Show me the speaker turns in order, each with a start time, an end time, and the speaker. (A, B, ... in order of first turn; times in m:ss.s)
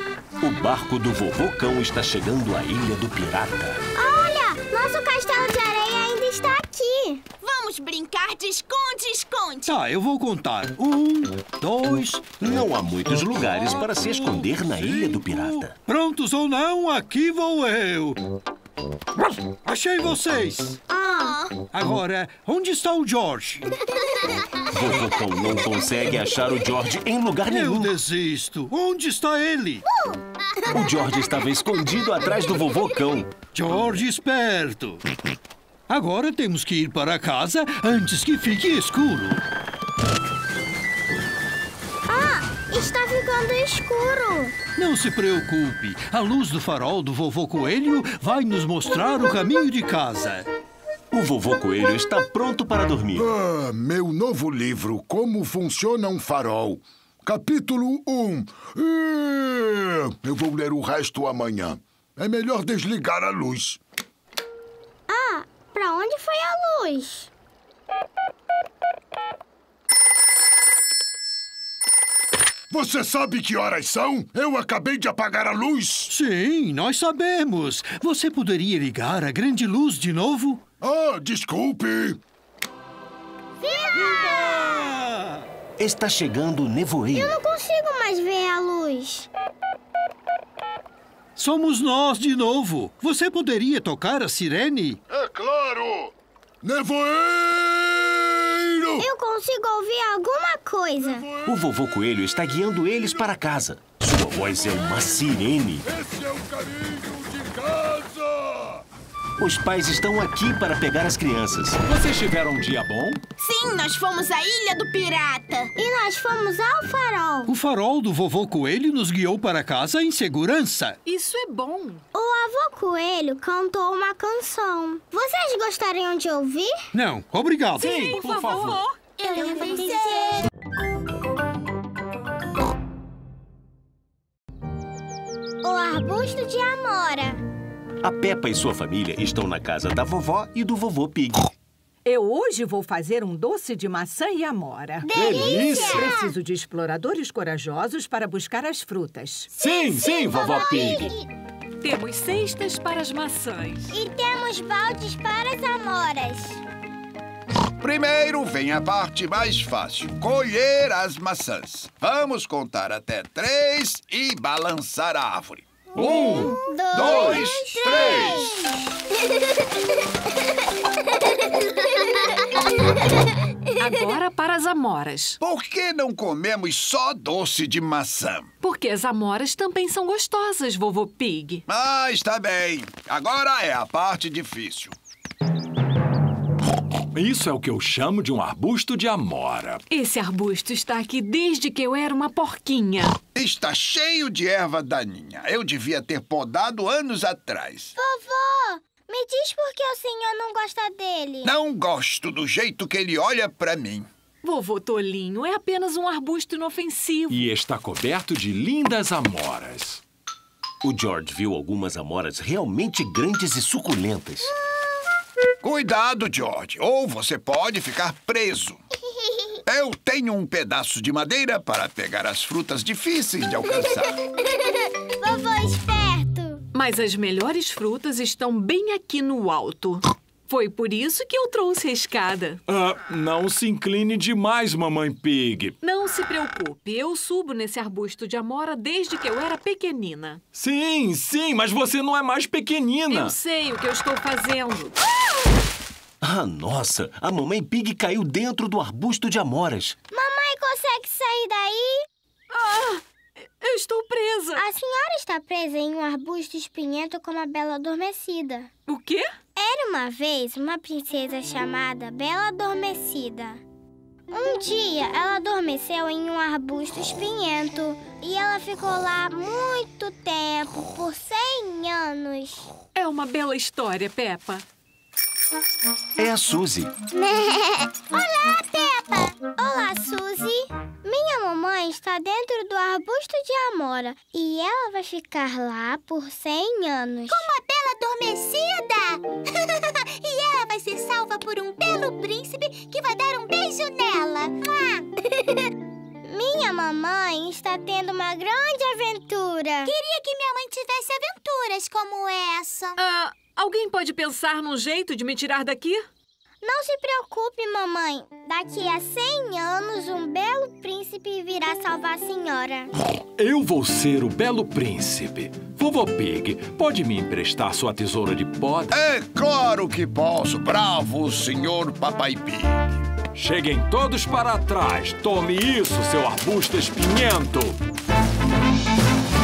0:00.4-0:03.8 A
0:03.9-0:07.2 B
0:07.5-0:07.8 C
0:07.8-0:09.7 D
0:09.6-0:12.6 E
0:12.4-0:15.7 A
0:13.9-0:14.3 E
0:14.9-0:18.2 E
0:19.6-0:20.8 E
0:20.9-0:21.5 B
0:21.7-0:23.6 E
0:24.7-0:27.9 A
0:27.5-0:29.8 E
0:30.7-0:33.3 A
0:33.5-0:35.0 E
0:35.9-0:39.4 E
0:42.1-0:44.5 B
0:44.8-0:50.5 E
0:51.1-0:53.3 A
0:53.2-1:03.8 F
1:05.1-1:07.3 B
1:12.7-1:16.1 F
1:16.1-1:20.6 E
1:20.8-1:22.2 F
1:23.6-1:25.0 B
1:23.9-1:25.4 E
1:25.8-1:27.4 A
1:27.1-1:29.3 B
1:31.4-1:35.0 E
1:35.1-1:39.0 F
1:39.0-1:41.3 B
1:41.1-1:41.5 F
1:41.4-1:45.9 A
1:45.8-1:48.8 F
1:49.4-1:51.8 A
1:51.8-1:53.2 G
1:53.4-1:55.6 C
1:55.7-1:57.5 B
1:57.5-2:01.0 E
2:01.0-2:02.0 H
2:02.1-2:06.8 B
2:06.9-2:08.8 E
2:07.8-2:09.0 H
2:09.2-2:10.4 D
2:09.3-2:09.9 B
2:09.7-2:10.2 C
2:15.6-2:17.4 B
2:18.0-2:21.5 A
2:22.0-2:29.5 I
2:25.0-2:26.3 B
2:25.1-2:26.1 G
2:29.6-2:31.1 G
2:29.6-2:31.3 B
2:31.8-2:33.9 H
2:33.9-2:36.6 B
2:37.8-2:48.5 J
2:46.0-2:48.7 B
2:53.8-2:55.4 H
2:55.4-2:58.5 J
2:58.6-3:01.6 H
3:01.7-3:05.0 J
3:07.1-3:09.8 G
3:09.9-3:13.2 H
3:13.3-3:17.9 J
3:18.0-3:21.5 B
3:21.4-3:24.1 J
3:24.4-3:27.4 H
3:27.3-3:30.0 G
3:30.8-3:34.5 A
3:35.6-3:38.8 J
3:39.6-3:44.1 J
3:45.2-3:46.6 B
3:46.7-3:52.6 H
3:52.7-3:55.7 G
3:55.8-4:00.4 H
4:00.5-4:03.3 G
4:03.1-4:05.0 H
4:06.2-4:10.0 A
4:10.1-4:12.0 B
4:12.5-4:14.6 H
4:14.5-4:18.7 B
4:18.9-4:19.3 H
4:19.6-4:23.6 B
4:24.3-4:32.7 B
4:33.0-4:34.6 H
4:36.2-4:36.9 A
4:37.1-4:47.4 B
4:47.3-4:55.0 D
4:56.2-4:59.9 B
4:59.8-5:03.0 D
5:03.0-5:06.0 H
5:06.6-5:12.9 B
5:13.4-5:19.0 G
5:18.9-5:23.0 J
5:23.3-5:27.8 G